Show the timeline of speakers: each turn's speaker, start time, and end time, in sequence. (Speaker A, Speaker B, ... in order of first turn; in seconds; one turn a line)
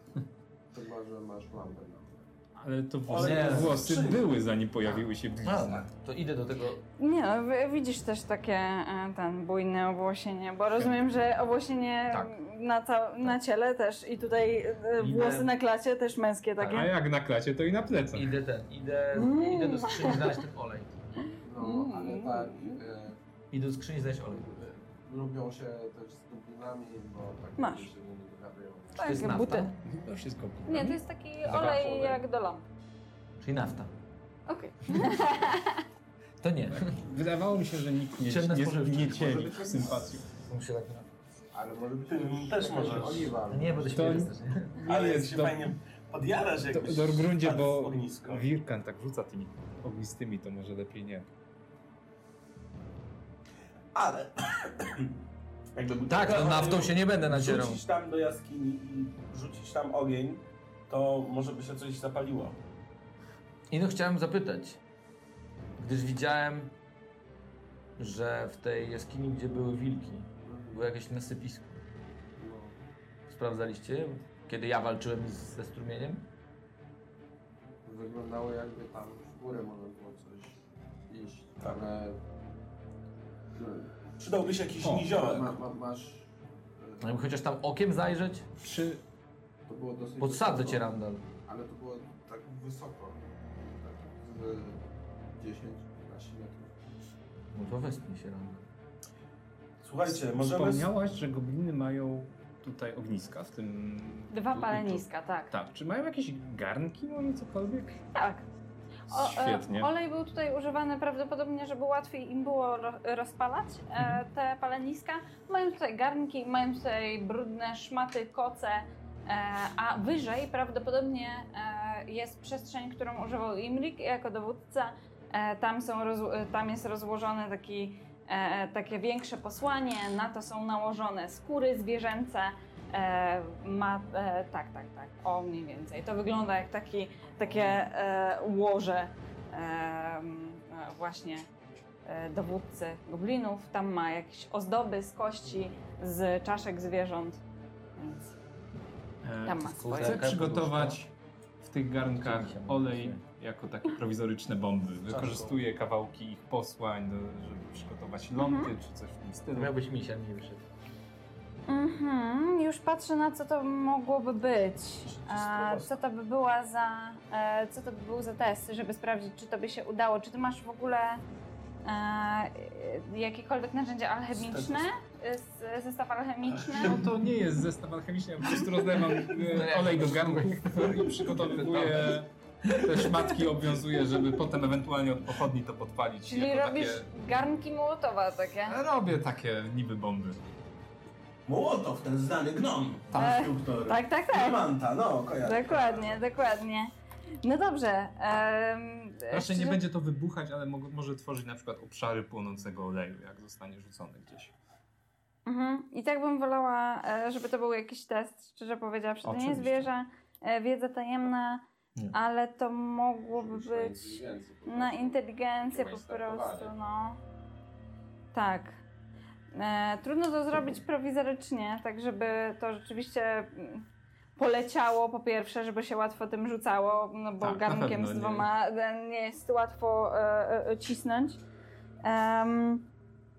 Speaker A: 0.7-2.3
Speaker B: 2.6-5.8
Speaker C: 3.1-4.3
Speaker D: 3.1-3.8
Speaker D: 5.4-6.8
Speaker E: 7.0-16.9
Speaker D: 12.1-12.3
Speaker D: 15.0-15.5
Speaker D: 16.6-16.9
Speaker B: 16.7-18.3
Speaker D: 18.1-21.1
Speaker E: 19.1-20.4
Speaker A: 21.4-23.2
Speaker E: 21.6-22.8
Speaker D: 23.5-24.5
Speaker A: 24.3-29.4
Speaker E: 27.6-27.9
Speaker E: 28.9-29.7
Speaker D: 29.0-29.8
Speaker B: 29.8-32.2
Speaker E: 30.7-32.6
Speaker D: 33.4-33.9
Speaker E: 34.5-35.8
Speaker D: 36.4-37.0
Speaker B: 36.7-40.3
Speaker D: 38.2-39.6
Speaker A: 39.2-40.0
Speaker D: 40.3-41.1
Speaker A: 41.5-44.3
Speaker C: 42.1-43.5
Speaker D: 43.5-44.9
Speaker B: 43.9-45.8
Speaker C: 44.8-48.4
Speaker B: 46.6-51.3
Speaker C: 53.9-55.1
Speaker C: 55.8-62.6
Speaker D: 56.1-57.8
Speaker D: 63.7-64.8
Speaker D: 65.8-66.7
Speaker D: 68.0-71.8
Speaker A: 70.4-70.8
Speaker A: 72.4-72.9
Speaker D: 73.3-76.3
Speaker A: 77.8-82.2
Speaker A: 83.5-83.9
Speaker C: 84.2-85.6
Speaker B: 84.8-85.1
Speaker A: 85.2-87.1
Speaker D: 87.0-88.5
Speaker B: 88.6-89.0
Speaker A: 89.7-90.8
Speaker D: 90.2-91.3
Speaker A: 91.4-94.8
Speaker A: 95.4-97.0
Speaker D: 97.5-98.7
Speaker C: 99.8-100.9
Speaker B: 100.0-107.9
Speaker E: 104.3-105.5
Speaker E: 108.1-108.4
Speaker E: 109.1-141.4
Speaker B: 109.1-109.9
Speaker E: 142.1-147.4
Speaker E: 148.0-148.3
Speaker B: 149.2-151.1
Speaker E: 149.4-150.2
Speaker D: 149.4-151.0
Speaker B: 151.6-159.7
Speaker D: 152.1-153.2
Speaker C: 155.1-155.6
Speaker E: 158.3-158.7
Speaker D: 159.5-160.7
Speaker E: 161.7-171.2
Speaker C: 165.0-166.0
Speaker E: 171.8-177.0
Speaker C: 174.3-174.9
Speaker B: 176.7-187.2
Speaker D: 179.3-183.5
Speaker E: 186.3-188.8
Speaker B: 188.6-190.4
Speaker C: 191.4-196.2
Speaker B: 193.1-193.4
Speaker E: 193.1-194.6
Speaker E: 195.4-196.9
Speaker E: 197.4-199.8
Speaker B: 199.3-204.5
Speaker E: 205.4-217.2
Speaker B: 209.2-209.9
Speaker A: 213.3-216.7
Speaker E: 218.3-218.8
Speaker E: 219.5-223.8
Speaker E: 224.4-231.4
Speaker B: 227.4-228.5
Speaker E: 232.0-232.9